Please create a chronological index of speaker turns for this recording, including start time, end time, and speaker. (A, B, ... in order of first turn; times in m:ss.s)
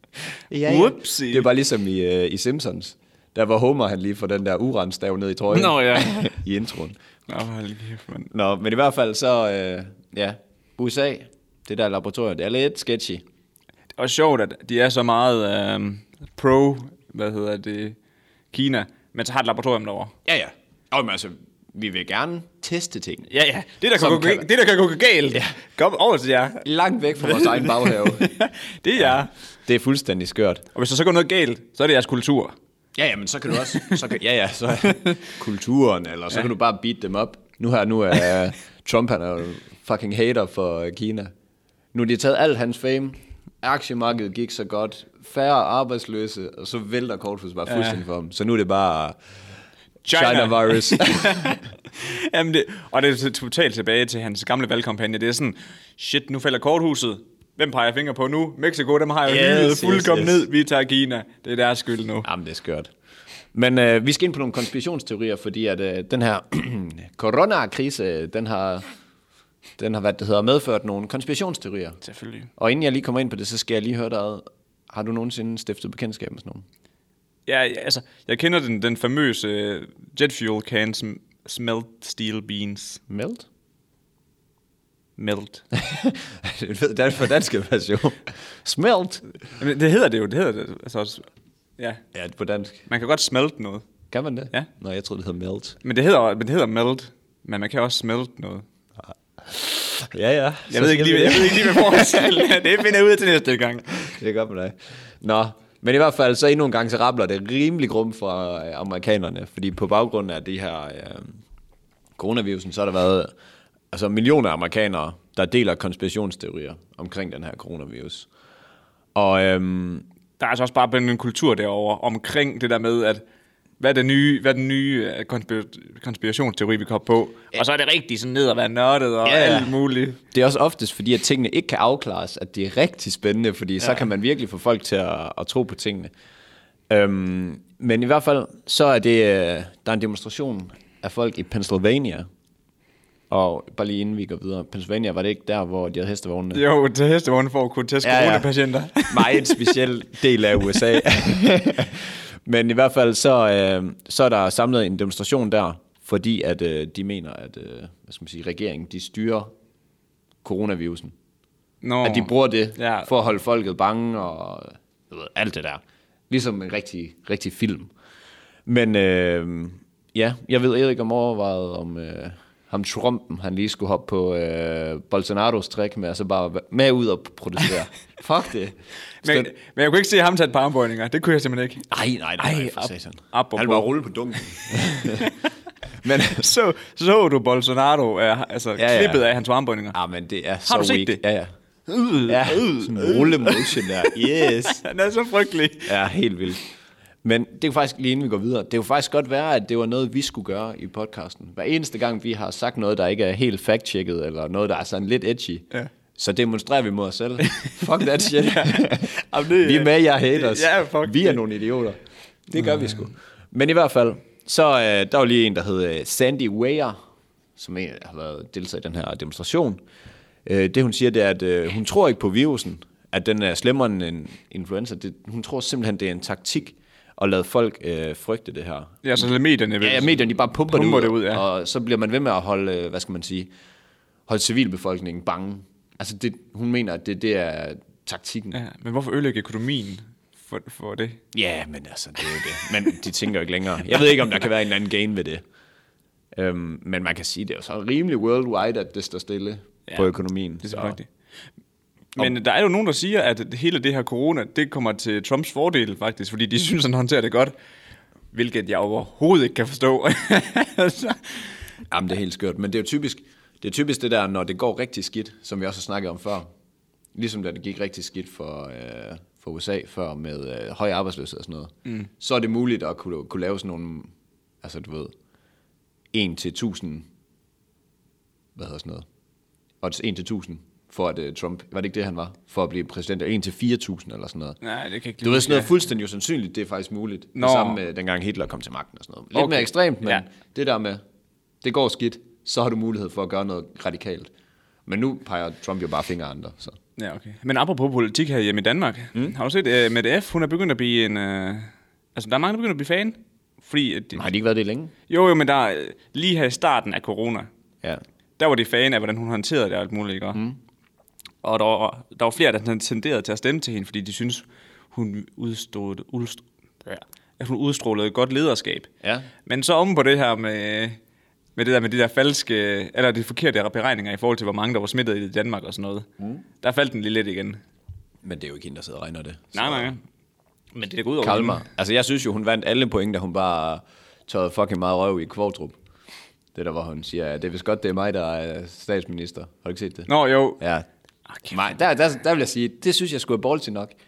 0:00.5-0:07.0 A
0:00.6-0:01.5 B
0:05.5-0:06.2 B
0:07.3-0:08.3 B
0:08.3-0:13.2 A
0:14.0-0:18.0 B
0:18.5-0:20.1 B
0:20.2-0:23.3 A
0:23.3-0:26.6 B
0:24.0-0:24.5 A
0:26.6-0:28.3 A
0:27.2-0:29.3 B
0:29.0-0:30.6 A
0:30.8-0:32.6 B
0:33.0-0:41.3 A
0:35.0-0:35.3 B
0:41.9-0:49.2 A
0:47.7-0:48.0 B
0:50.0-1:02.3 B
0:50.1-0:51.5 A
0:59.2-1:00.5 A
1:02.2-1:02.9 A
1:03.5-1:08.9 A
1:09.8-1:12.0 A
1:12.0-1:12.5 B
1:12.6-1:16.6 A
1:17.5-1:23.0 B
1:23.1-1:23.5 A
1:25.2-1:25.6 B
1:25.7-1:29.2 A
1:29.6-1:31.2 B
1:32.1-1:32.9 A
1:32.9-1:33.9 B
1:34.1-1:35.8 A
1:35.8-1:38.6 B
1:39.1-1:42.5 A
1:40.7-1:43.9 B
1:43.9-1:51.4 A
1:52.2-1:53.3 A
1:53.9-1:58.3 A
1:59.2-2:00.0 A
2:00.4-2:03.2 B
2:03.8-2:10.2 B
2:09.2-2:09.8 A
2:10.3-2:16.1 A
2:16.9-2:22.3 A
2:23.3-2:26.6 A
2:26.5-2:29.8 B
2:28.0-2:28.5 A
2:29.0-2:39.5 A
2:40.4-2:41.2 A
2:41.8-2:43.1 B
2:42.0-2:47.9 A
2:48.7-2:59.5 A
2:59.2-3:05.4 B
3:01.9-3:05.3 A
3:06.0-3:06.5 A
3:06.3-3:10.0 B
3:08.8-3:09.2 A
3:09.9-3:11.5 A
3:10.7-3:11.2 B
3:11.9-3:16.0 B
3:12.2-3:14.8 A
3:15.9-3:16.6 A
3:17.2-3:37.0 A
3:28.4-3:31.4 B
3:32.6-3:33.0 B
3:37.6-3:39.8 A
3:40.4-3:49.2 A
3:49.0-3:51.4 B
3:49.8-3:53.5 A
3:54.3-3:58.6 A
3:58.5-4:01.2 B
4:01.3-4:05.4 A
4:06.4-4:11.0 A
4:09.9-4:11.1 B
4:12.2-4:17.5 B
4:18.3-4:21.5 B
4:21.9-4:26.5 A
4:27.2-4:35.1 A
4:36.1-4:37.1 A
4:38.6-4:39.1 A
4:39.8-4:44.6 A
4:44.6-4:45.7 B
4:45.2-4:51.0 A
4:47.4-4:47.8 B
4:49.4-4:50.2 B
4:51.6-4:54.3 A
4:54.9-4:56.8 A
4:57.0-5:04.3 B
5:04.2-5:04.9 A
5:05.1-5:07.5 B
5:08.4-5:10.4 B
5:11.4-5:18.9 B
5:19.5-5:21.0 B
5:21.6-5:26.1 B
5:26.6-5:27.6 B
5:28.2-5:29.9 A
5:29.5-5:30.0 B
5:30.8-5:31.6 B
5:31.2-5:35.8 A
5:36.5-5:40.1 A
5:40.1-5:40.6 B
5:40.6-5:40.9 A
5:41.5-5:43.9 A